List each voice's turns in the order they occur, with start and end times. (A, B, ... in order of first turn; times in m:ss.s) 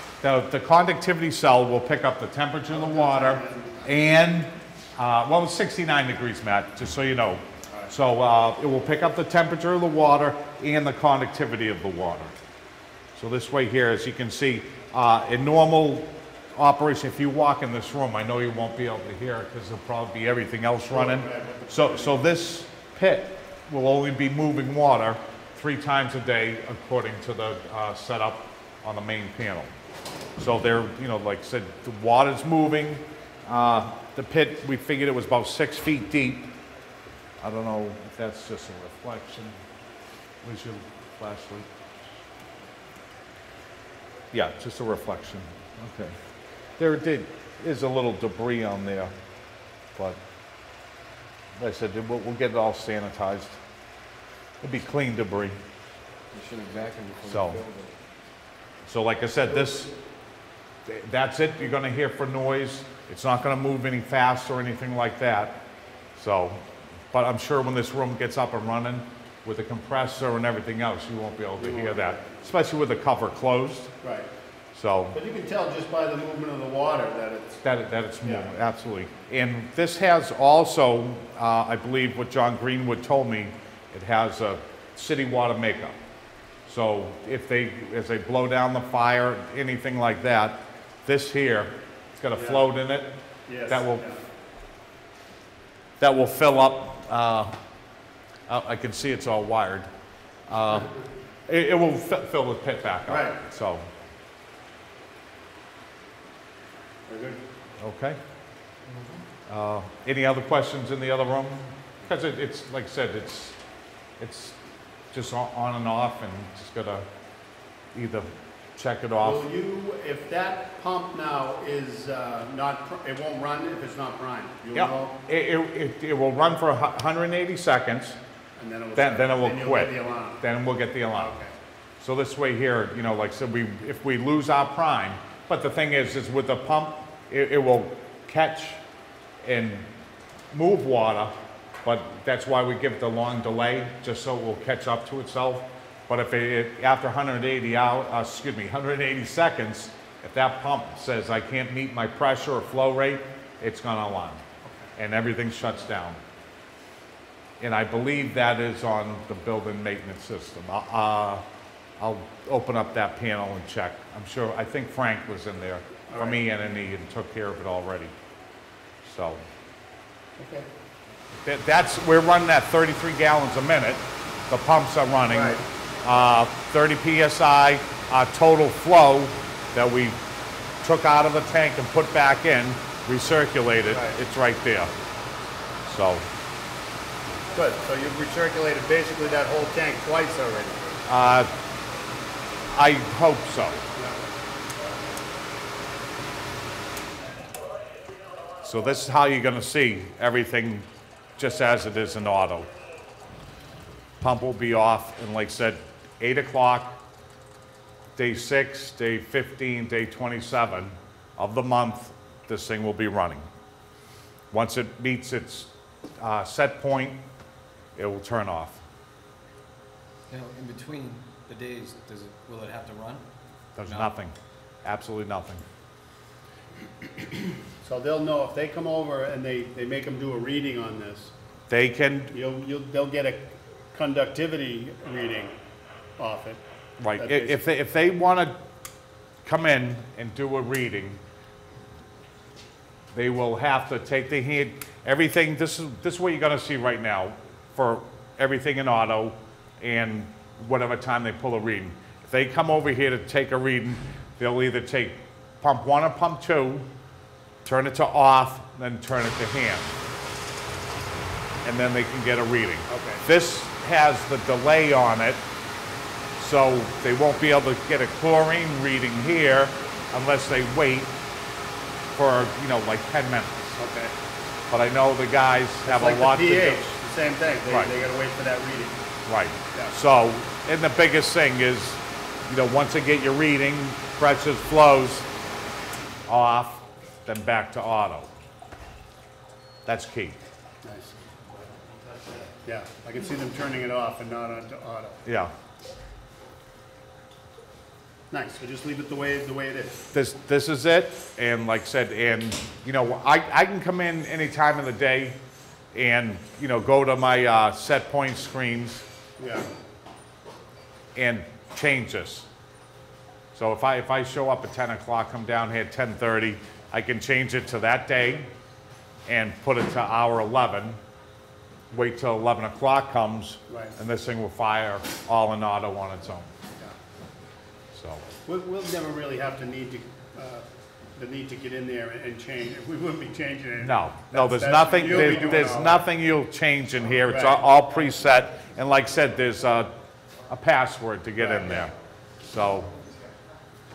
0:00.2-0:12.3 A
0:02.7-0:03.9 B
0:13.1-0:29.7 A
0:20.9-0:22.3 B
0:30.4-0:36.5 A
0:37.4-0:39.5 A
0:40.4-0:41.7 A
0:44.3-0:46.2 A
0:46.8-0:49.1 A
0:49.9-0:50.2 A
0:51.6-0:53.6 A
0:54.6-0:55.6 A
0:56.3-0:58.0 C
0:57.2-0:57.6 A
0:58.9-0:59.9 A
1:00.8-1:05.6 A
1:06.2-1:13.9 A
1:11.6-1:12.2 B
1:14.0-1:14.3 B
1:14.7-1:15.2 A
1:15.1-1:17.6 B
1:17.6-1:25.9 A
1:26.7-1:34.0 A
1:32.3-1:32.7 B
1:33.5-1:34.2 B
1:36.0-1:37.5 A
1:38.5-1:39.9 A
1:40.5-1:40.9 A
1:41.5-1:43.9 A
1:43.1-1:43.4 B
1:47.1-1:47.4 B
1:47.8-1:48.2 A
1:48.9-1:49.2 C
1:49.5-1:53.6 A
1:54.2-1:54.6 A
1:55.1-1:57.0 A
1:57.9-1:59.4 A
1:59.2-2:05.1 B
2:04.7-2:08.2 A
2:08.6-2:10.4 B
2:09.0-2:11.3 A
2:11.1-2:11.5 B
2:12.0-2:18.8 A
2:19.4-2:19.9 A
2:20.5-2:34.4 A
2:35.0-2:36.2 A
2:37.6-2:41.4 A
2:42.0-2:48.1 A
2:46.1-2:46.4 B
2:49.0-2:49.4 A
2:50.4-2:50.7 B
2:51.4-3:00.2 A
2:55.3-2:55.6 B
3:00.8-3:04.9 A
3:03.9-3:04.2 B
3:05.8-3:06.3 A
3:07.5-3:10.8 B
3:11.0-3:11.5 A
3:12.7-3:13.8 A
3:14.0-3:14.2 B
3:18.6-3:20.8 A
3:21.4-3:22.7 A
3:24.2-3:27.0 A
3:28.2-3:33.4 A
3:34.5-3:37.2 A
3:38.0-3:38.8 A
3:40.3-3:43.2 C
3:43.8-3:45.6 A
3:43.8-3:44.1 C
3:47.8-3:51.3 B
3:51.7-3:52.3 A
3:52.3-3:55.6 B
3:56.2-3:56.6 B
3:57.0-3:58.6 A
3:57.2-3:57.6 B
3:59.4-4:01.2 A
4:03.1-4:16.9 A
4:17.6-4:19.9 A
4:21.6-4:25.4 A
4:22.9-4:23.2 B
4:26.4-4:31.2 A
4:32.1-4:33.8 A
4:33.8-4:34.1 B
4:34.7-4:37.0 A
4:35.8-4:39.0 B
4:39.2-4:45.3 A
4:46.3-4:48.3 A
4:49.8-4:50.4 A
4:50.8-4:51.1 B
4:52.6-4:55.2 B
4:55.2-4:55.5 A
4:58.3-5:00.0 B
5:00.1-5:05.4 A
5:05.9-5:09.0 A
5:09.4-5:09.7 B
5:11.2-5:12.5 A
5:13.5-5:18.5 A
5:19.3-5:21.0 A
5:21.9-5:26.5 A
5:23.7-5:24.0 B
5:27.9-5:28.2 A
5:28.4-5:36.0 B
5:33.8-5:39.9 A
5:37.3-5:37.6 B
5:40.5-5:42.9 A
5:41.4-5:41.9 B